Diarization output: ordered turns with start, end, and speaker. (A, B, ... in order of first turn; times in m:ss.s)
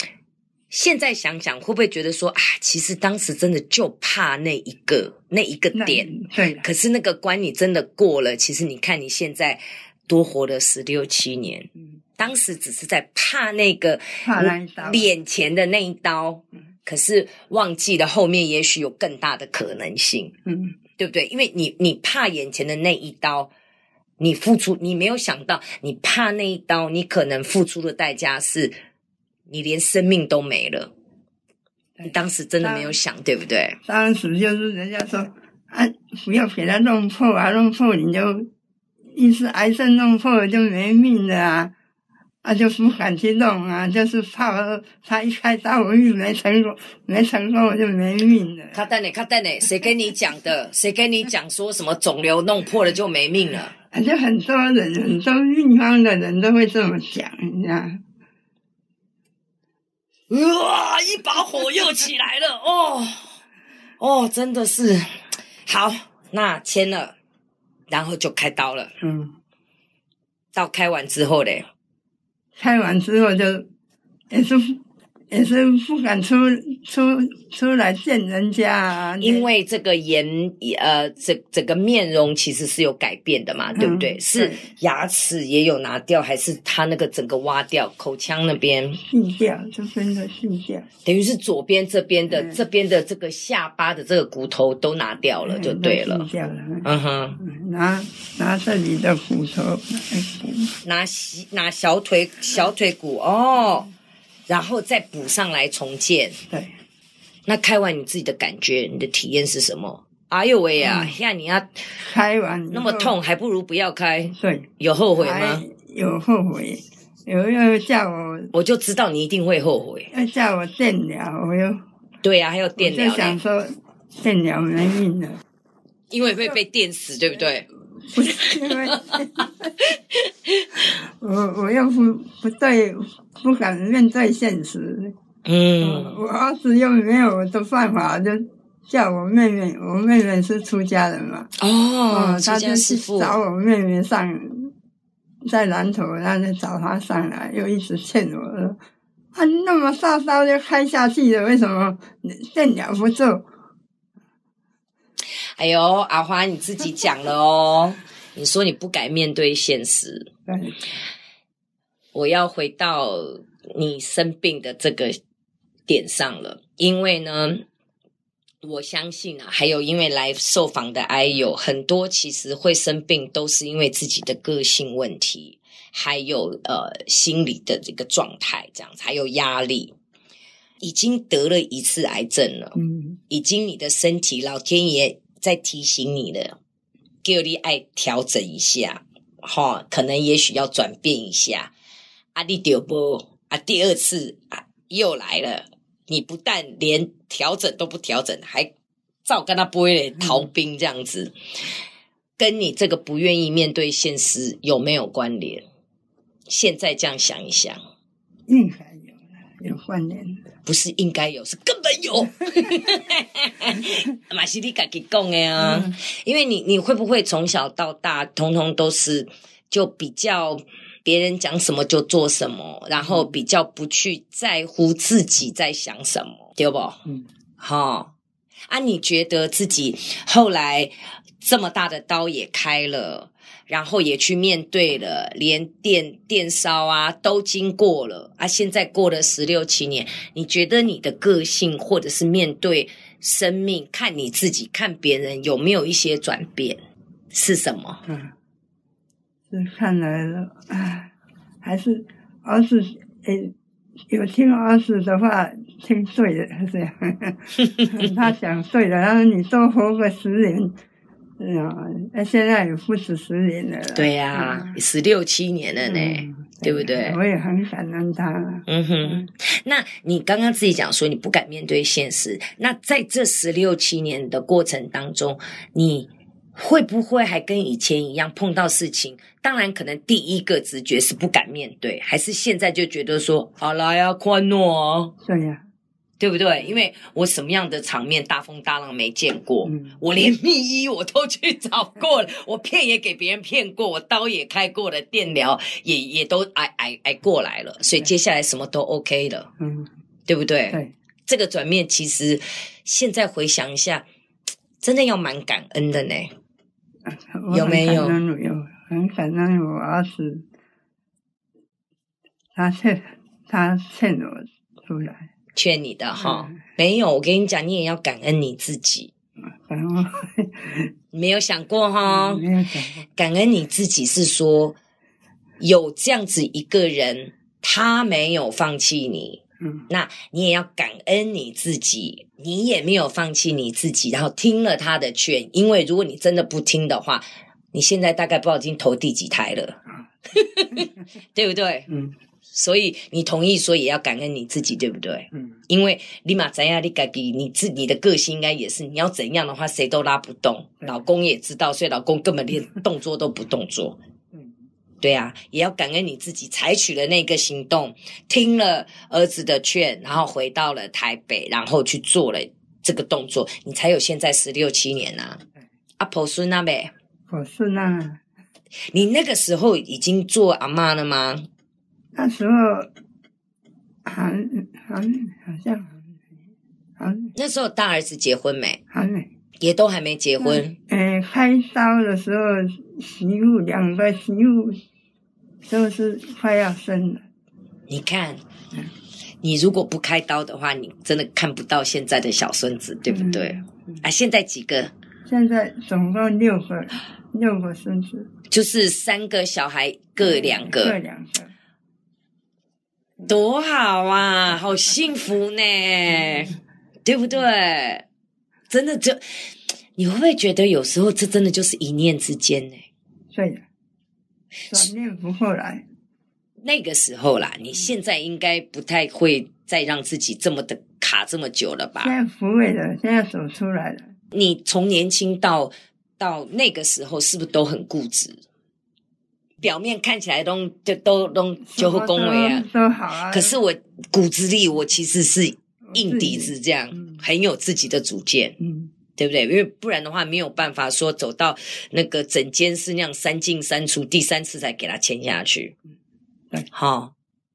0:00.7-0:06.1 A
0:05.7-0:06.7 B
0:06.6-0:20.3 A
0:14.2-0:15.1 B
0:20.4-0:20.8 B
0:21.0-0:23.5 A
0:24.2-0:28.8 A
0:29.5-0:30.9 A
0:32.0-0:33.0 B
0:32.0-0:33.8 A
0:33.8-0:38.5 B
0:39.1-0:41.7 B
0:42.4-0:48.8 B
0:48.7-0:53.7 A
0:53.9-0:58.0 B
1:00.3-1:03.3 A
1:04.0-1:05.1 A
1:05.6-1:07.2 A
1:07.9-1:08.9 A
1:09.0-1:09.3 B
1:10.5-1:11.6 A
1:12.6-1:13.7 B
1:14.3-1:14.8 B
1:15.3-1:19.5 B
1:19.2-1:29.0 A
1:23.7-1:24.6 B
1:29.0-1:30.9 B
1:31.0-1:36.3 A
1:32.3-1:32.6 B
1:35.4-1:40.7 B
1:36.8-1:37.4 A
1:40.8-1:43.9 A
1:44.5-1:46.4 A
1:46.5-1:46.7 B
1:47.4-1:51.8 A
1:50.8-1:51.2 B
1:52.0-1:53.1 B
1:52.7-1:55.6 A
1:54.4-1:58.5 B
1:58.5-2:00.1 A
2:00.1-2:01.8 B
2:02.2-2:03.4 A
2:02.8-2:05.4 B
2:06.1-2:07.7 A
2:08.1-2:09.5 B
2:08.7-2:09.2 A
2:11.2-2:15.1 B
2:15.4-2:16.2 A
2:15.8-2:21.5 B
2:21.6-2:23.4 A
2:22.1-2:24.7 B
2:25.4-2:28.8 B
2:29.3-2:33.4 B
2:35.6-2:40.3 A
2:40.5-2:40.8 B
2:42.1-2:45.2 A
2:45.9-2:47.6 A
2:48.6-2:59.9 A
3:00.8-3:02.8 A
3:02.8-3:03.2 B
3:03.3-3:06.6 A
3:07.2-3:11.7 A
3:12.3-3:18.7 A
3:19.2-3:21.3 A
3:22.4-3:25.6 A
3:26.5-3:27.8 A
3:28.5-3:30.4 B
3:30.6-3:47.0 A
3:35.6-3:35.9 B
3:43.0-3:43.3 B
3:47.6-3:48.1 A
3:48.7-4:06.8 A
4:07.3-4:08.0 A
4:08.0-4:08.3 B
4:09.5-4:13.5 B
4:14.1-4:20.7 B
4:21.4-4:24.8 B
4:23.9-4:27.2 A
4:25.8-4:29.2 B
4:28.7-4:45.1 A
4:45.2-4:45.6 B
4:46.2-4:59.5 A
4:49.6-4:50.0 B
4:59.6-4:59.9 B
5:00.3-5:04.0 A
5:04.8-5:06.3 A
5:07.0-5:10.4 B
5:07.5-5:08.2 A
5:12.5-5:15.3 B
5:15.5-5:19.1 A
5:16.2-5:16.5 B
5:19.6-5:20.9 B
5:21.1-5:22.4 A
5:22.0-5:23.0 B
5:23.1-5:24.8 A
5:25.6-5:39.8 A
5:29.6-5:29.9 B
5:40.3-5:41.9 A
5:42.5-5:54.0 A
5:55.0-6:05.4 A
6:06.0-6:06.9 A
6:07.3-6:08.2 B
6:08.9-6:11.5 A
6:12.1-6:12.9 B
6:14.0-6:16.0 B
6:17.0-6:17.3 B
6:17.3-6:18.8 A
6:18.9-6:19.3 B
6:19.6-6:20.8 A
6:20.4-6:24.8 B
6:25.6-6:27.2 B
6:27.9-6:28.4 A
6:29.4-6:34.9 A
6:33.1-6:33.9 B
6:35.2-6:38.3 B
6:38.5-6:41.0 A
6:40.2-6:41.5 B
6:43.2-6:48.0 A
6:48.7-6:49.2 A
6:50.0-6:52.8 A
6:53.3-6:53.6 B
6:54.7-6:55.8 B
6:56.6-7:02.1 A
7:02.0-7:04.1 B
7:04.3-7:08.4 A
7:09.6-7:12.6 A
7:11.6-7:13.6 B
7:13.3-7:18.6 A
7:15.9-7:17.2 B
7:18.6-7:18.9 B
7:19.2-7:25.8 A
7:26.7-7:27.1 A